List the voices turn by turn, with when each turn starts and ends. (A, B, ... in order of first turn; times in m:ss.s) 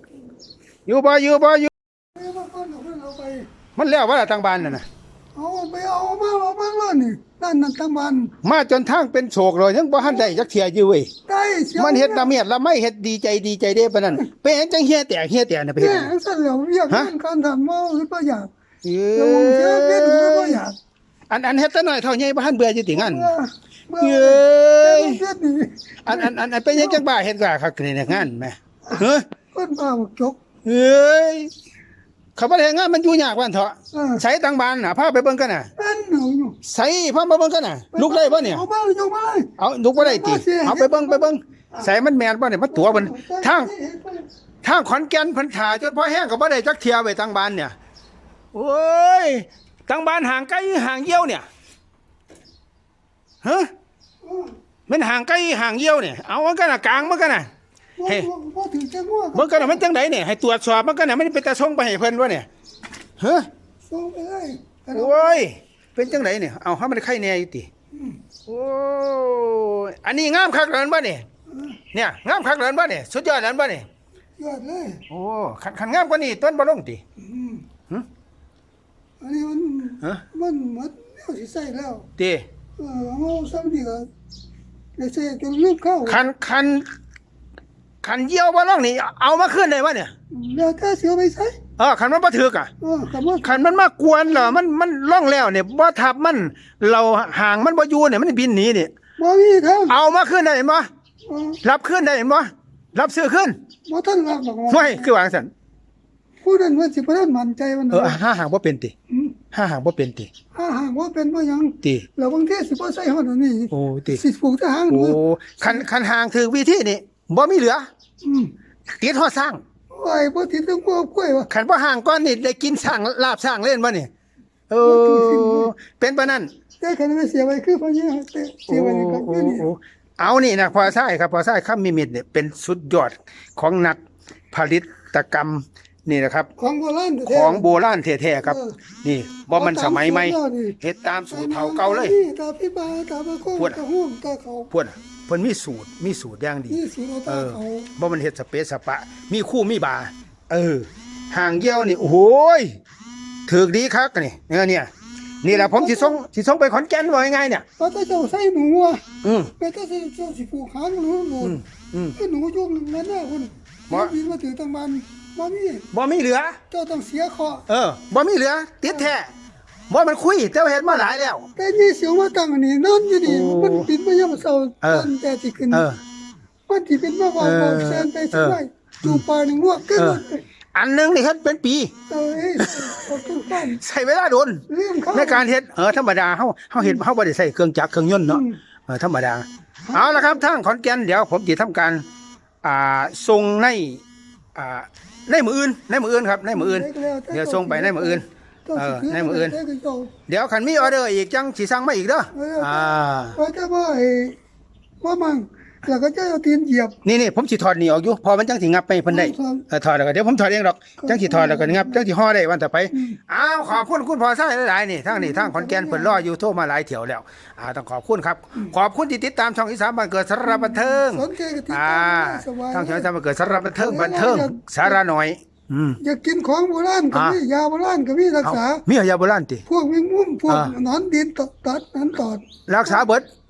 0:00.9-0:01.7 A
0:02.2-0:03.5 B
0:03.8-0:04.8 A
0:05.4-0:08.3 B
0:08.4-0:11.1 A
0:10.0-0:10.4 B
0:11.3-0:12.3 B
0:11.8-0:16.1 A
0:15.8-0:18.5 B
0:18.8-0:20.6 A
0:19.2-0:20.8 B
0:21.3-0:23.3 A
0:22.9-0:27.0 B
0:24.0-0:25.2 A
0:26.0-0:29.3 A
0:29.5-0:30.4 B
0:30.6-0:31.5 A
0:32.4-0:35.7 A
0:33.9-0:34.2 B
0:35.8-0:36.6 B
0:36.6-0:38.6 A
0:37.9-0:41.9 B
0:39.6-0:43.7 A
0:42.7-0:44.3 B
0:44.6-0:47.8 A
0:48.5-0:51.4 A
0:53.4-0:53.7 A
0:54.2-0:54.5 B
0:54.9-0:57.5 A
0:58.0-0:59.8 B
0:59.3-1:02.5 A
1:03.2-1:03.5 A
1:03.9-1:05.4 B
1:04.9-1:07.7 A
1:08.5-1:11.3 A
1:11.5-1:11.8 B
1:11.9-1:13.9 A
1:14.4-1:15.0 B
1:15.1-1:17.0 A
1:17.2-1:17.6 B
1:19.2-1:22.1 B
1:22.2-1:22.5 A
1:22.8-1:24.1 B
1:25.0-1:26.2 B
1:26.1-1:26.9 A
1:28.0-1:30.1 A
1:30.3-1:31.6 B
1:31.8-1:32.7 A
1:32.8-1:33.5 B
1:33.4-1:38.9 A
1:39.2-1:40.0 B
1:39.9-1:40.9 A
1:41.3-1:41.6 B
1:41.6-1:43.6 A
1:43.9-1:45.1 B
1:44.7-1:45.5 A
1:46.4-1:48.2 B
1:47.9-1:48.9 A
1:49.5-1:50.3 A
1:50.6-1:55.9 B
1:53.7-1:54.2 A
1:54.9-1:57.9 A
1:58.2-1:58.5 B
1:59.0-1:59.6 A
1:59.9-2:01.5 B
2:01.5-2:04.1 A
2:04.7-2:06.5 A
2:04.8-2:05.7 B
2:06.8-2:09.7 B
2:08.7-2:14.0 A
2:14.5-2:16.5 A
2:16.6-2:17.7 B
2:17.3-2:22.2 A
2:18.4-2:18.8 B
2:19.5-2:20.8 B
2:21.3-2:24.7 B
2:23.6-2:23.8 A
2:24.7-2:32.8 A
2:26.7-2:27.9 B
2:33.5-2:34.9 A
2:35.4-2:37.6 A
2:35.5-2:36.2 B
2:37.8-2:39.0 B
2:39.2-2:39.5 A
2:39.6-2:41.6 B
2:41.4-2:42.2 A
2:42.2-2:45.9 B
2:45.9-2:46.6 A
2:46.7-2:47.6 B
2:47.7-2:49.3 A
2:49.9-2:51.5 A
2:51.6-2:55.9 B
2:53.3-2:53.9 A
2:54.8-2:55.1 A
2:55.7-2:56.0 A
2:56.7-3:00.4 B
2:57.4-2:59.2 A
3:00.0-3:00.2 A
3:00.7-3:01.9 A
3:02.1-3:03.8 B
3:02.6-3:03.0 A
3:03.6-3:12.0 A
3:04.7-3:05.5 B
3:08.3-3:08.6 B
3:09.9-3:10.4 B
3:12.6-3:14.0 A
3:14.6-3:19.6 A
3:16.5-3:20.1 B
3:20.3-3:23.4 A
3:22.3-3:24.4 B
3:25.0-3:27.0 B
3:27.0-3:46.0 A
3:29.1-3:29.7 B
3:31.0-3:32.0 B
3:32.9-3:33.2 B
3:35.1-3:36.2 B
3:40.4-3:43.1 B
3:43.8-3:45.0 B
3:46.0-3:48.8 B
3:47.1-3:47.4 A
3:48.4-3:49.6 A
3:49.7-3:53.0 B
3:50.5-3:50.7 A
3:52.7-3:53.3 A